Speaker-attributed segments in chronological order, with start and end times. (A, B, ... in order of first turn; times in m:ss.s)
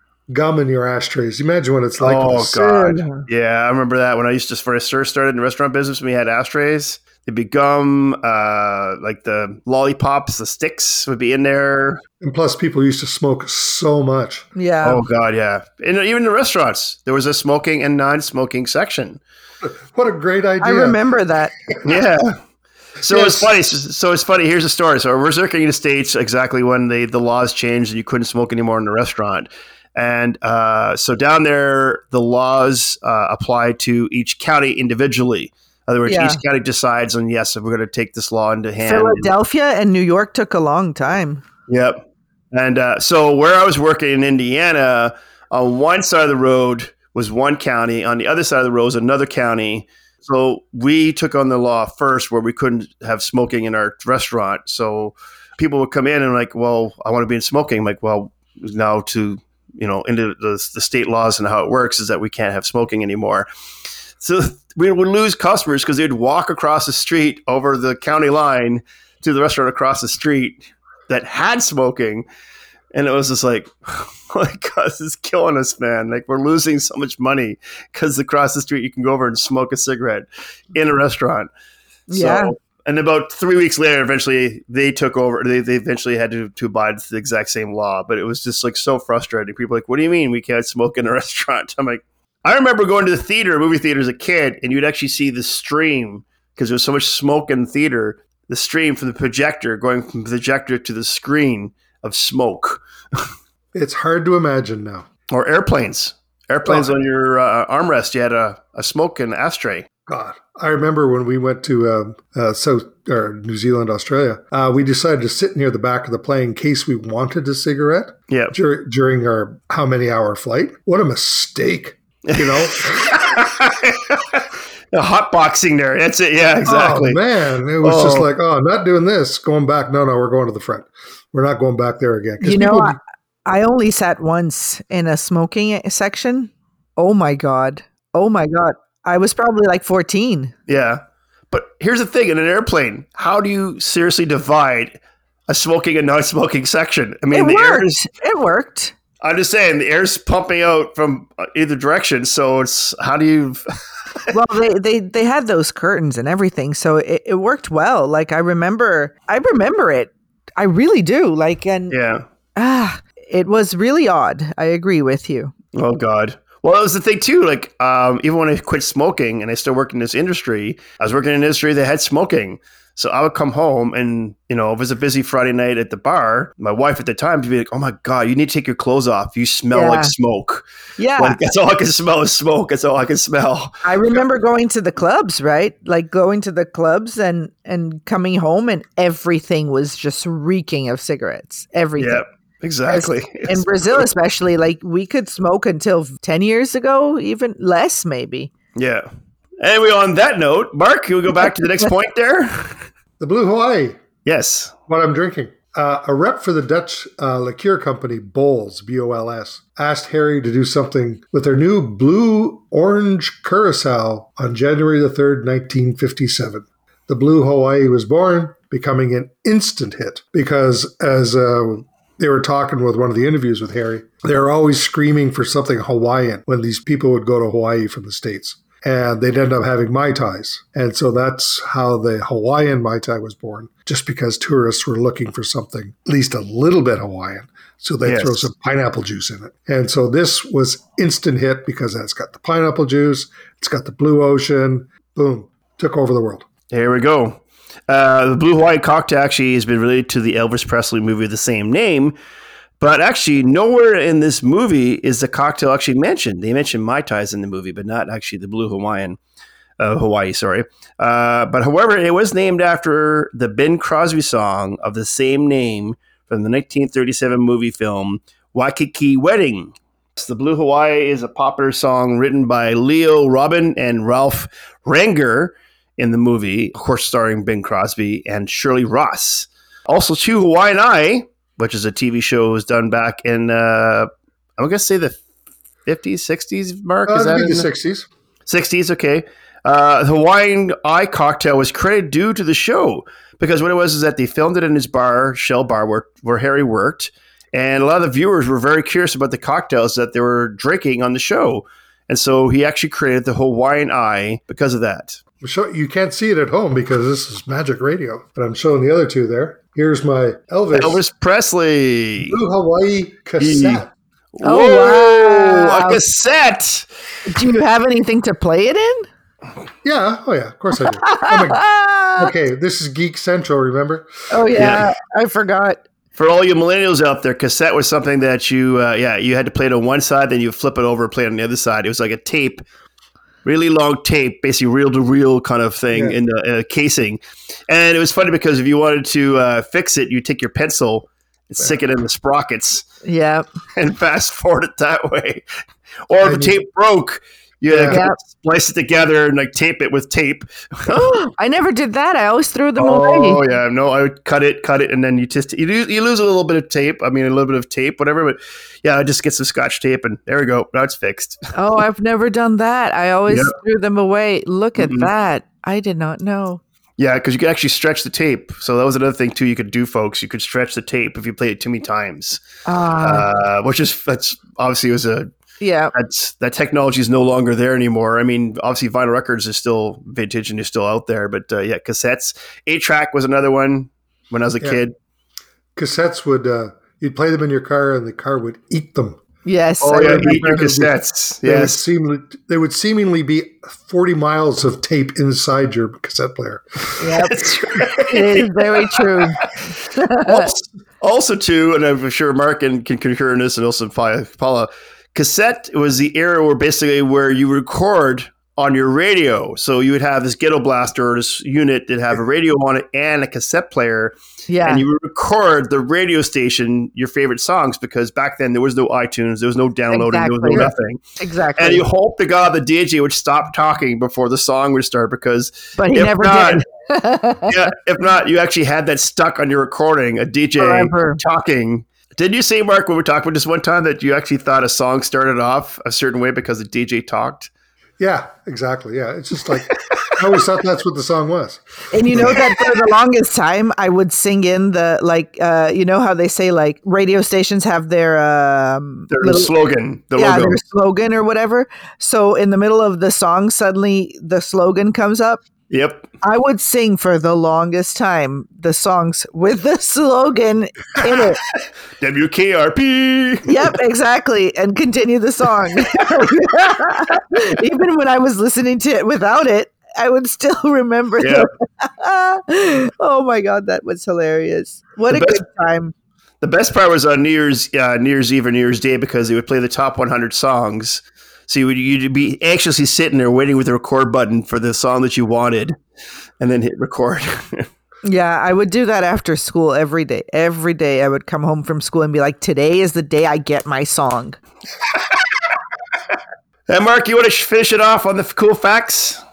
0:00.3-0:02.8 A
0:02.0-0:12.0 B
0:02.8-0:03.2 C
0:12.2-0:14.5 A
0:14.6-0:15.0 C
0:14.8-0:19.2 B
0:19.6-0:21.0 A
0:20.6-0:21.5 C
0:21.8-0:22.4 B
0:23.0-0:39.3 B
0:23.1-0:23.5 A
0:36.0-0:36.4 C
0:38.8-0:41.4 C
0:41.7-1:03.5 B
1:04.2-1:12.2 B
1:12.9-1:21.5 B
1:22.1-1:22.5 C
1:22.1-1:43.2 B
1:43.7-1:45.1 A
1:45.3-1:49.9 B
1:46.6-1:46.9 A
1:50.1-2:03.3 A
2:02.3-2:07.2 B
2:06.6-2:13.0 A
2:07.8-2:08.3 B
2:12.4-2:20.5 C
2:20.7-2:28.0 B
2:27.3-2:28.9 C
2:29.2-2:33.6 B
2:34.3-2:42.0 C
2:41.9-2:42.2 B
2:42.5-2:45.5 C
2:45.7-3:00.6 B
2:59.7-3:00.1 C
3:01.0-3:01.4 C
3:01.2-3:04.2 B
3:03.8-3:12.2 C
3:12.0-3:14.0 B
3:12.8-3:18.5 C
3:18.7-3:19.0 B
3:19.6-3:22.8 B
3:23.2-3:24.0 A
3:24.2-3:24.7 B
3:24.9-4:06.5 A
3:58.0-3:58.5 B
4:06.7-4:12.2 B
4:12.8-4:19.2 B
4:19.8-4:45.2 B
4:45.8-4:47.7 B
4:47.1-4:48.1 A
4:48.4-5:05.2 B
5:05.4-5:11.0 A
5:10.7-5:12.4 B
5:12.2-5:13.9 A
5:13.4-5:16.9 B
5:14.4-5:16.0 C
5:17.2-5:19.1 C
5:19.8-5:24.1 A
5:21.0-5:22.3 C
5:24.3-5:25.8 C
5:24.5-5:24.9 B
5:26.2-5:32.6 B
5:33.4-5:42.9 B
5:35.9-5:36.2 A
5:43.0-5:43.5 C
5:43.8-5:45.4 B
5:46.1-5:51.2 B
5:46.2-5:46.6 A
5:47.7-5:48.0 A
5:47.9-5:48.2 C
5:50.9-5:53.4 C
5:52.8-6:01.4 B
6:01.5-6:06.6 C
6:03.3-6:03.5 B
6:04.8-6:05.1 B
6:07.0-6:12.4 B
6:12.6-6:13.2 C
6:13.0-6:15.3 B
6:15.6-6:15.9 C
6:15.9-6:24.9 B
6:25.8-6:29.2 A
6:29.4-6:30.6 C
6:29.8-6:31.8 B
6:29.9-6:36.9 A
6:37.0-6:40.5 C
6:37.3-6:39.5 B
6:40.2-7:01.0 B
6:54.5-6:54.8 C
6:59.9-7:01.8 C
7:01.6-7:06.6 B
7:05.8-7:07.5 C
7:07.5-7:17.5 B
7:10.6-7:11.2 C
7:18.0-7:22.4 A
7:19.7-7:20.2 B
7:21.9-7:29.5 C
7:22.2-7:22.7 B
7:29.1-7:30.6 B
7:30.2-7:35.4 C
7:35.7-7:36.1 B
7:36.2-7:41.4 C
7:41.0-7:43.7 B
7:43.4-7:55.9 C
7:51.2-7:51.5 B
7:55.1-7:55.4 B
7:56.4-8:05.8 B
8:06.4-8:07.7 B
8:08.0-8:14.4 C
8:16.7-8:19.2 B